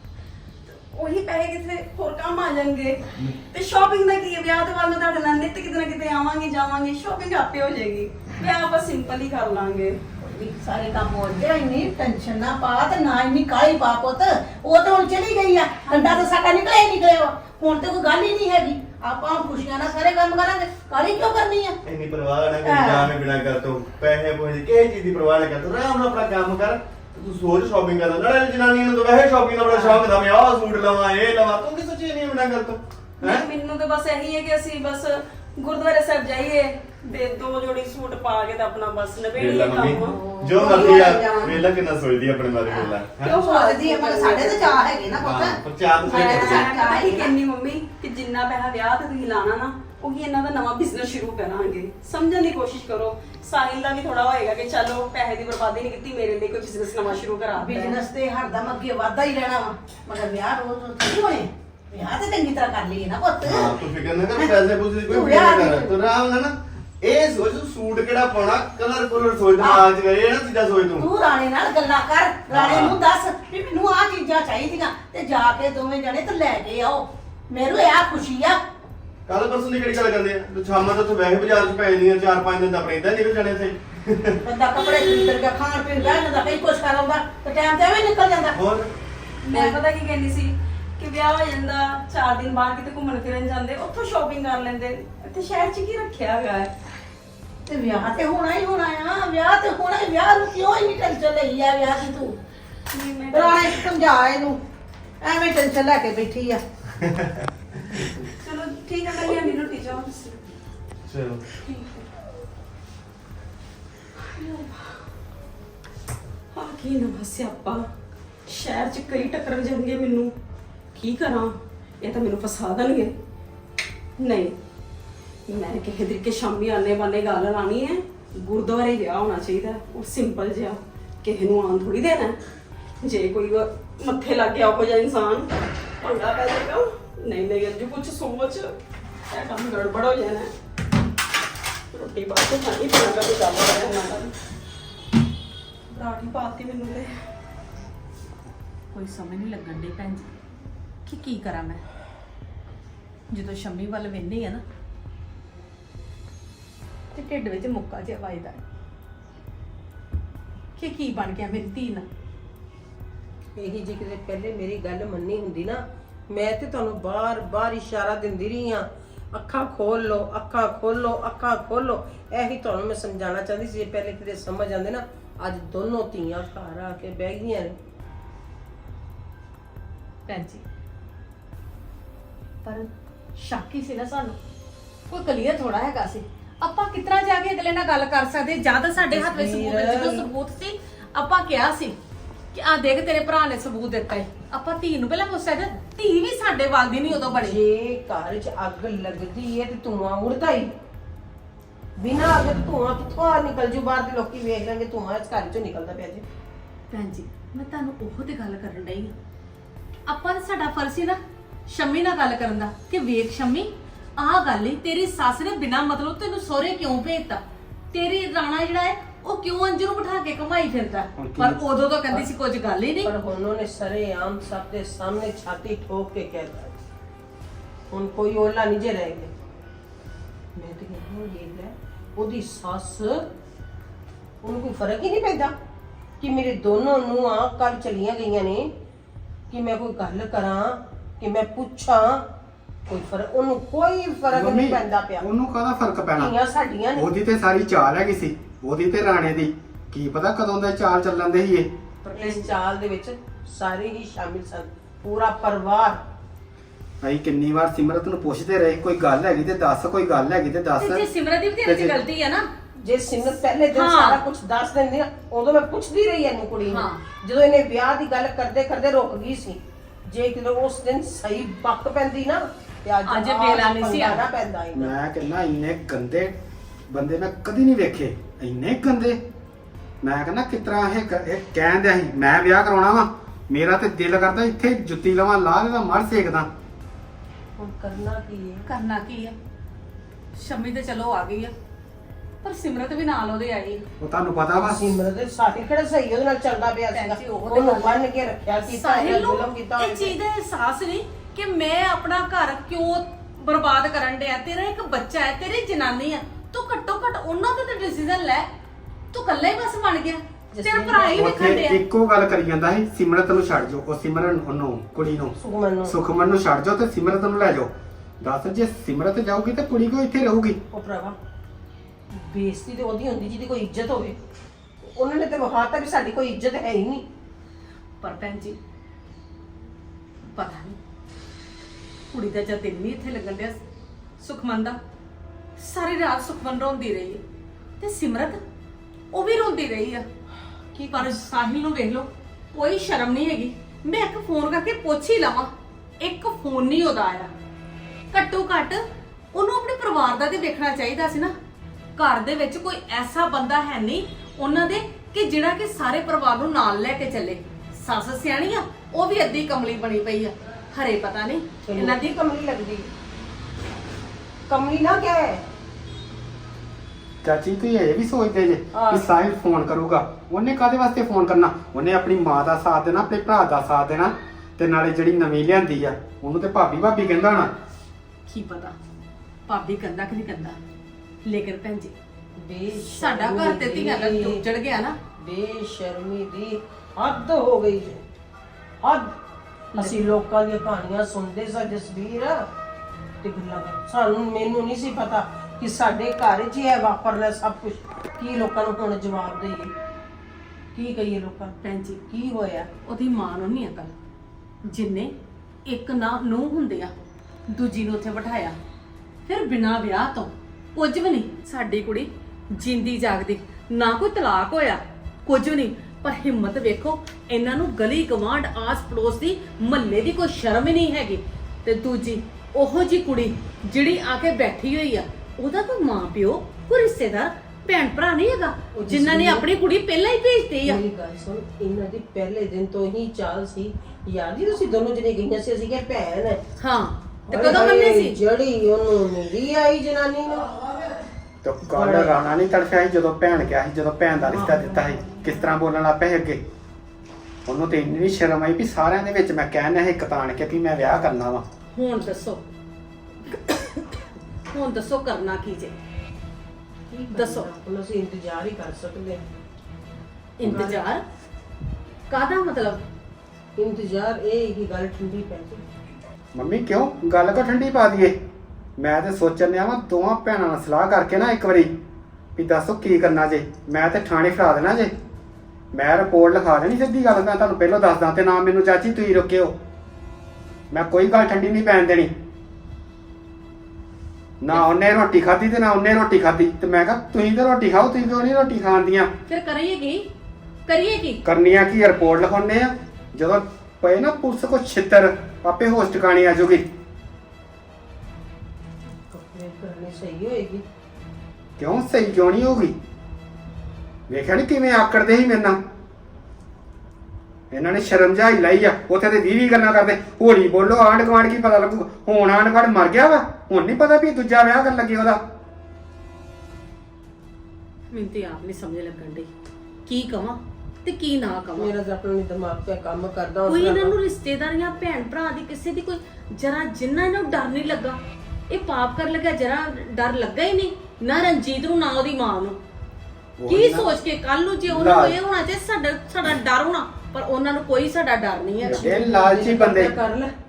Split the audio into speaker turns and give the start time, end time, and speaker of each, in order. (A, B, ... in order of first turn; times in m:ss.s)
0:00.7-0:10.0 A
0:10.2-0:21.8 B
0:21.8-0:33.5 C
0:22.6-0:23.1 B
0:29.7-0:30.0 B
0:33.2-0:41.3 A
0:39.4-0:43.3 C
0:40.1-0:41.6 B
0:42.7-0:47.3 B
0:43.2-0:44.8 A
0:45.2-0:46.7 C
0:46.0-0:58.0 A
0:57.5-1:03.8 B
1:03.4-1:11.1 C
1:04.3-1:06.0 B
1:09.6-1:09.9 B
1:11.0-1:18.6 B
1:12.5-1:13.0 C
1:19.3-1:24.4 C
1:24.4-1:28.6 B
1:28.5-1:28.9 C
1:29.4-1:36.7 A
1:29.5-1:29.8 B
1:37.6-1:42.4 B
1:42.9-1:43.8 A
1:43.3-1:44.6 B
1:45.2-1:46.6 B
1:47.0-1:47.4 C
1:48.4-1:50.5 A
1:51.0-1:51.4 C
1:51.6-1:52.0 A
1:54.2-1:55.0 A
1:56.5-1:57.9 A
1:58.5-2:00.3 A
2:00.9-2:03.1 A
2:04.2-2:04.6 A
2:05.5-2:12.4 A
2:13.0-2:18.7 A
2:19.3-2:20.5 A
2:21.9-2:24.3 A
2:25.9-2:27.1 A
2:28.9-2:30.3 D
2:31.0-2:31.8 D
2:33.3-2:34.6 D
2:37.1-2:38.6 D
2:40.8-2:42.0 D
2:43.6-2:57.7 E
3:00.3-3:00.6 D
3:02.6-3:04.4 D
3:05.1-3:12.0 D
3:09.0-3:10.3 E
3:12.5-3:17.6 D
3:17.1-3:20.7 E
3:22.0-3:26.2 E
3:26.9-3:29.1 D
3:30.0-3:43.1 D
3:41.2-3:41.6 F
3:43.0-3:46.8 E
3:47.9-3:49.3 E
3:50.6-3:53.2 E
3:54.4-3:55.5 E
3:56.2-3:58.7 E
3:59.5-4:02.2 E
4:02.9-4:05.2 E
4:04.3-4:06.3 F
4:06.1-4:07.1 E
4:06.9-4:11.7 F
4:12.0-4:12.5 D
4:12.1-4:16.0 E
4:17.0-4:21.0 F
4:20.8-4:22.5 D
4:21.6-4:22.0 F
4:22.8-4:34.9 E
4:23.7-4:24.2 D
4:26.7-4:27.0 D
4:33.0-4:34.2 D
4:34.7-4:36.3 F
4:36.9-4:39.2 F
4:40.0-4:46.5 F
4:47.6-4:48.7 E
4:48.7-4:49.4 D
4:50.3-4:51.5 D
4:52.4-4:53.8 D
4:54.0-4:54.9 F
4:54.6-5:00.2 E
4:56.9-4:58.0 D
4:58.6-5:08.5 D
5:09.1-5:11.8 D
5:10.5-5:11.3 E
5:11.0-5:17.7 F
5:15.4-5:15.9 E
5:18.2-5:20.6 F
5:20.7-5:21.2 E
5:22.2-5:24.2 E
5:24.8-5:27.0 E
5:28.0-5:28.6 D
5:30.3-5:30.8 D
5:32.1-5:33.6 D
5:34.2-5:34.8 D
5:35.6-5:37.2 D
5:37.8-5:38.4 D
5:39.1-5:40.0 D
5:40.7-5:41.2 E
5:40.9-5:47.3 D
5:48.1-5:51.3 D
5:52.0-6:02.1 D
6:01.6-6:02.9 E
6:04.5-6:05.4 E
6:07.2-6:17.5 F
6:08.7-6:09.1 E
6:18.3-6:18.8 D
6:19.5-6:20.6 D
6:21.2-6:21.9 D
6:22.4-6:24.4 E
6:22.8-6:25.0 D
6:25.2-6:28.0 E
6:28.8-6:29.1 E
6:29.7-6:30.0 D
6:29.7-6:32.4 E
6:33.2-6:39.7 E
6:40.7-6:41.6 E
6:41.6-6:42.0 D
6:42.1-6:42.7 E
6:42.8-6:43.9 D
6:44.6-6:45.1 D
6:45.6-6:46.9 D
6:47.5-6:48.6 D
6:49.2-7:10.8 D
7:08.7-7:09.5 E
7:10.6-7:16.4 E
7:16.6-7:18.2 D
7:17.3-7:20.6 E
7:21.4-7:26.4 F
7:21.7-7:22.2 E
7:24.2-7:25.5 E
7:27.4-7:31.4 F
7:31.7-7:32.4 D
7:33.3-7:33.8 D
7:34.5-7:35.7 D
7:36.9-7:39.2 E
7:37.1-7:37.5 D
7:40.4-7:41.0 D
7:40.4-7:40.9 E
7:42.1-7:42.8 D
7:43.6-7:45.6 E
7:46.3-7:48.2 F
7:48.8-7:51.7 F
7:52.4-7:54.9 F
7:55.7-7:59.6 F
8:00.7-8:02.1 F
8:04.4-8:09.1 F
8:09.3-8:10.0 D
8:10.6-8:11.2 D
8:11.2-8:16.7 F
8:19.1-8:20.6 E
8:21.6-8:22.7 F
8:24.1-8:25.6 F
8:27.5-8:35.2 F
8:37.9-8:39.3 D
8:39.9-8:41.7 D
8:41.6-8:43.9 E
8:43.5-8:48.0 D
8:48.5-8:52.6 D
8:53.4-8:53.9 F
8:53.5-8:58.9 D
8:54.7-8:55.2 F
8:58.6-8:59.9 F
8:58.6-9:00.3 E